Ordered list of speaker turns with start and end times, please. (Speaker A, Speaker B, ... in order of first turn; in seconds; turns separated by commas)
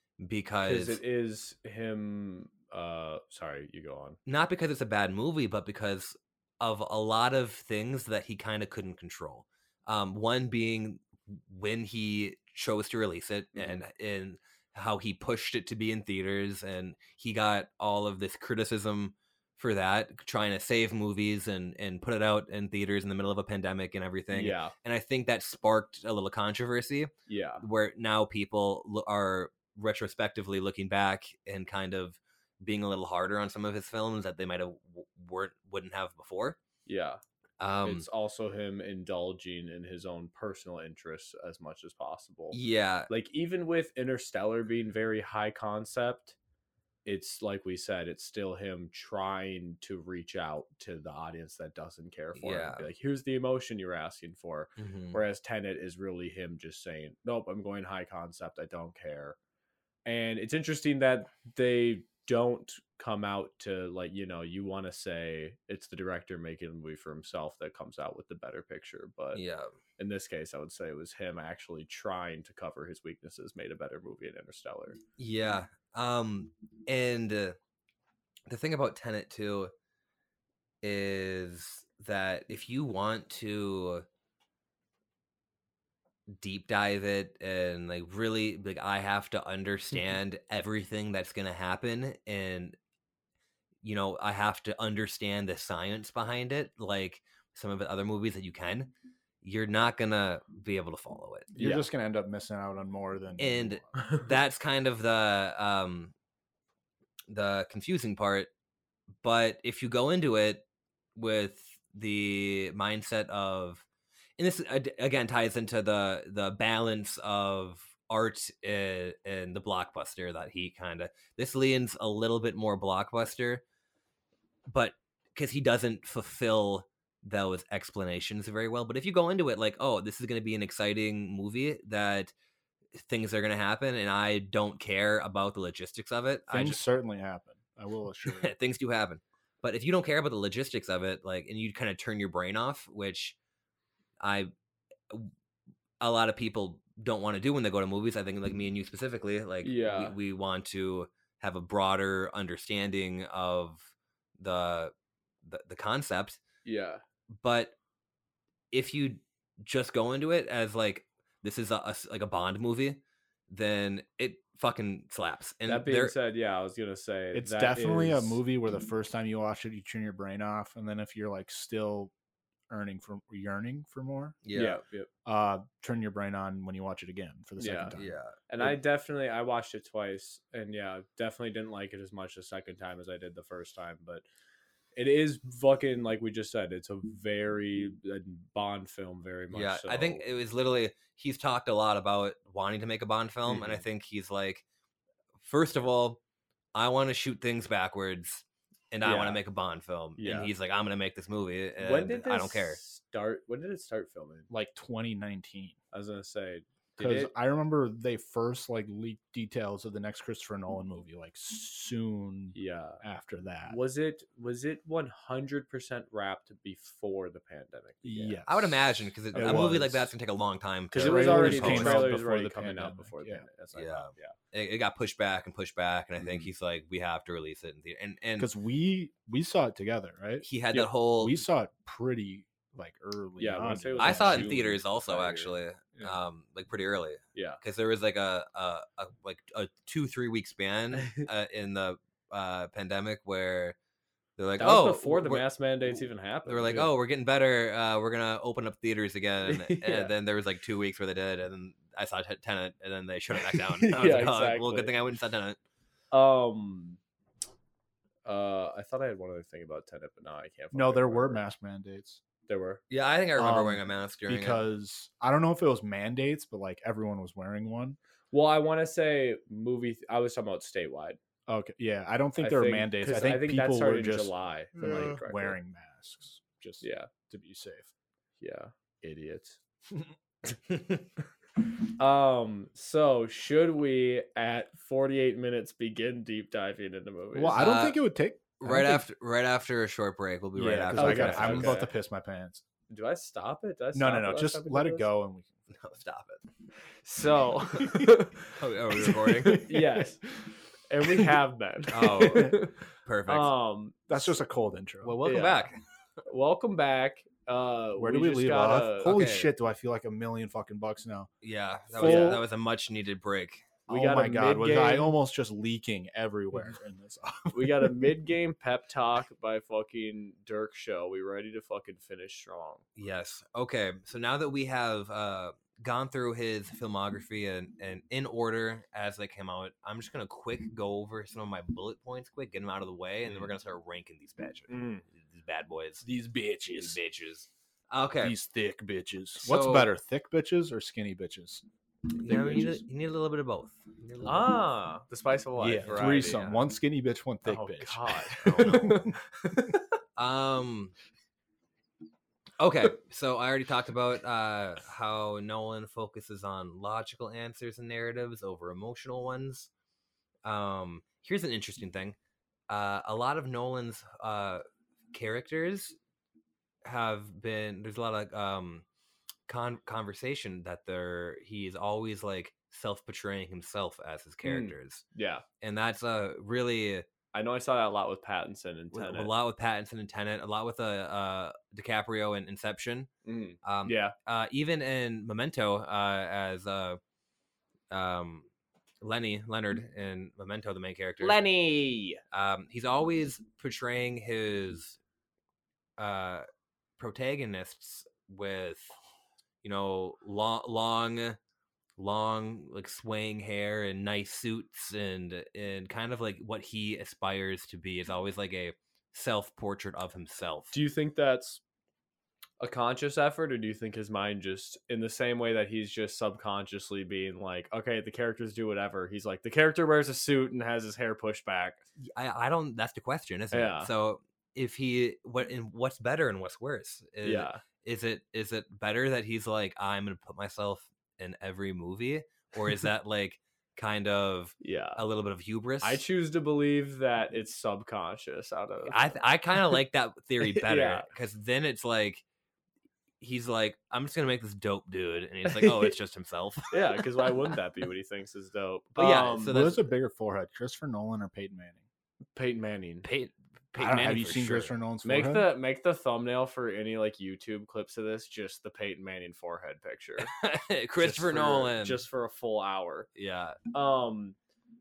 Speaker A: 0.2-1.0, Speaker B: 0.6-4.2, Speaker A: 4.2-36.6, Speaker B: 13.5-13.8, Speaker B: 24.3-24.7, Speaker B: 27.3-27.6, Speaker B: 36.9-37.2, Speaker A: 37.6-38.1, Speaker B: 37.8-46.4, Speaker A: 42.5-43.1, Speaker B: 47.0-59.4, Speaker A: 52.4-52.9, Speaker A: 54.8-55.2, Speaker B: 60.0-69.4, Speaker A: 69.3-69.7, Speaker B: 70.0-75.0, Speaker A: 75.2-77.6, Speaker A: 78.5-79.7, Speaker A: 80.8-84.0, Speaker A: 86.3-92.8, Speaker A: 93.8-101.5, Speaker B: 101.5-101.9, Speaker C: 101.5-103.9, Speaker A: 103.4-106.1, Speaker B: 104.0-104.3, Speaker A: 107.3-108.5, Speaker A: 109.2-110.6, Speaker A: 111.2-113.8, Speaker A: 114.4-123.6, Speaker A: 124.7-132.3, Speaker A: 133.0-136.8, Speaker C: 136.5-138.5, Speaker A: 138.2-143.4, Speaker A: 144.2-144.5, Speaker A: 146.0-154.9, Speaker B: 149.6-150.2, Speaker A: 155.4-156.4, Speaker B: 156.6-157.0, Speaker A: 157.3-157.7, Speaker A: 158.7-166.1, Speaker B: 165.7-168.4, Speaker C: 167.3-172.1, Speaker C: 172.7-174.4, Speaker A: 174.4-174.8, Speaker B: 174.5-175.1, Speaker C: 175.2-178.7, Speaker B: 177.6-177.9, Speaker A: 177.9-178.4, Speaker B: 178.5-184.2, Speaker B: 184.9-190.2, Speaker A: 189.5-194.6, Speaker B: 193.5-193.8, Speaker A: 195.4-196.2, Speaker A: 196.7-202.8, Speaker B: 199.0-199.4, Speaker B: 200.2-200.5, Speaker B: 201.8-204.5, Speaker C: 204.5-205.8, Speaker B: 205.9-207.3, Speaker C: 207.0-213.8, Speaker B: 212.5-213.0, Speaker B: 213.7-218.4, Speaker C: 218.0-220.1, Speaker A: 218.5-222.1, Speaker B: 219.3-219.8, Speaker C: 220.9-223.4, Speaker B: 220.9-224.3, Speaker A: 223.7-228.5, Speaker B: 226.2-226.5, Speaker C: 228.4-234.6, Speaker A: 230.4-231.4, Speaker B: 233.4-235.5, Speaker A: 234.0-243.8, Speaker B: 237.3-237.6, Speaker A: 244.4-245.4, Speaker B: 244.6-246.9, Speaker A: 246.4-255.6, Speaker B: 249.4-250.1, Speaker B: 253.4-254.9, Speaker B: 256.1-257.0, Speaker B: 258.2-261.4, Speaker C: 260.7-262.2, Speaker B: 262.5-262.8, Speaker A: 262.9-264.6, Speaker C: 263.4-268.0, Speaker B: 268.3-271.2, Speaker C: 271.5-277.9, Speaker B: 272.4-275.6, Speaker B: 276.8-277.1, Speaker B: 278.4-279.6, Speaker B: 281.6-287.6, Speaker C: 287.3-289.0, Speaker A: 287.5-288.0, Speaker A: 288.6-291.8, Speaker C: 290.5-292.6, Speaker B: 290.9-291.9, Speaker B: 292.9-295.1, Speaker C: 293.9-295.5, Speaker A: 295.7-296.4, Speaker B: 297.0-298.5, Speaker A: 298.5-299.7, Speaker C: 299.0-300.4, Speaker B: 299.4-300.3, Speaker B: 300.9-304.3, Speaker C: 301.0-301.3, Speaker A: 301.9-303.5, Speaker C: 302.2-302.6, Speaker C: 304.1-305.2, Speaker A: 305.0-305.8, Speaker B: 305.2-305.7, Speaker B: 306.2-309.1, Speaker C: 308.0-311.3, Speaker A: 309.0-309.5, Speaker A: 311.4-313.7, Speaker C: 311.9-312.4, Speaker B: 311.9-312.4, Speaker B: 313.9-315.1, Speaker C: 313.9-318.0, Speaker B: 317.5-322.9, Speaker A: 322.9-336.0, Speaker B: 334.7-335.0, Speaker C: 336.0-337.0, Speaker A: 336.7-338.4, Speaker C: 338.2-341.6, Speaker A: 339.4-339.9, Speaker A: 342.1-344.5, Speaker C: 342.2-342.8, Speaker B: 344.2-346.5, Speaker C: 345.6-349.1, Speaker A: 345.8-346.6, Speaker B: 347.4-349.1, Speaker A: 348.4-349.1, Speaker A: 350.2-350.9, Speaker A: 352.6-359.7, Speaker A: 360.4-362.1, Speaker A: 362.7-366.0, Speaker A: 366.8-368.8, Speaker A: 369.5-375.0, Speaker B: 374.4-375.4, Speaker A: 375.6-377.1, Speaker B: 377.3-379.3, Speaker A: 378.9-383.1, Speaker B: 383.2-384.1, Speaker A: 383.6-387.0, Speaker A: 387.9-388.5, Speaker A: 389.0-391.4, Speaker B: 391.2-392.2, Speaker A: 392.3-395.0, Speaker A: 396.0-396.5, Speaker A: 397.0-398.9, Speaker A: 399.6-401.4, Speaker A: 402.0-410.7, Speaker B: 410.7-411.6, Speaker B: 412.6-421.8, Speaker A: 422.0-436.0, Speaker B: 423.5-423.9, Speaker B: 427.2-427.6, Speaker B: 434.6-435.0, Speaker B: 435.8-439.2, Speaker A: 438.9-442.2, Speaker B: 440.5-441.1, Speaker A: 443.2-447.0, Speaker B: 445.5-445.9, Speaker B: 446.7-449.6, Speaker A: 448.9-449.9, Speaker C: 449.4-451.8, Speaker B: 452.3-453.1, Speaker A: 453.0-454.7, Speaker C: 453.8-455.5, Speaker B: 455.0-460.3, Speaker A: 460.2-462.0, Speaker B: 461.0-463.1, Speaker A: 463.1-463.6, Speaker B: 463.7-464.4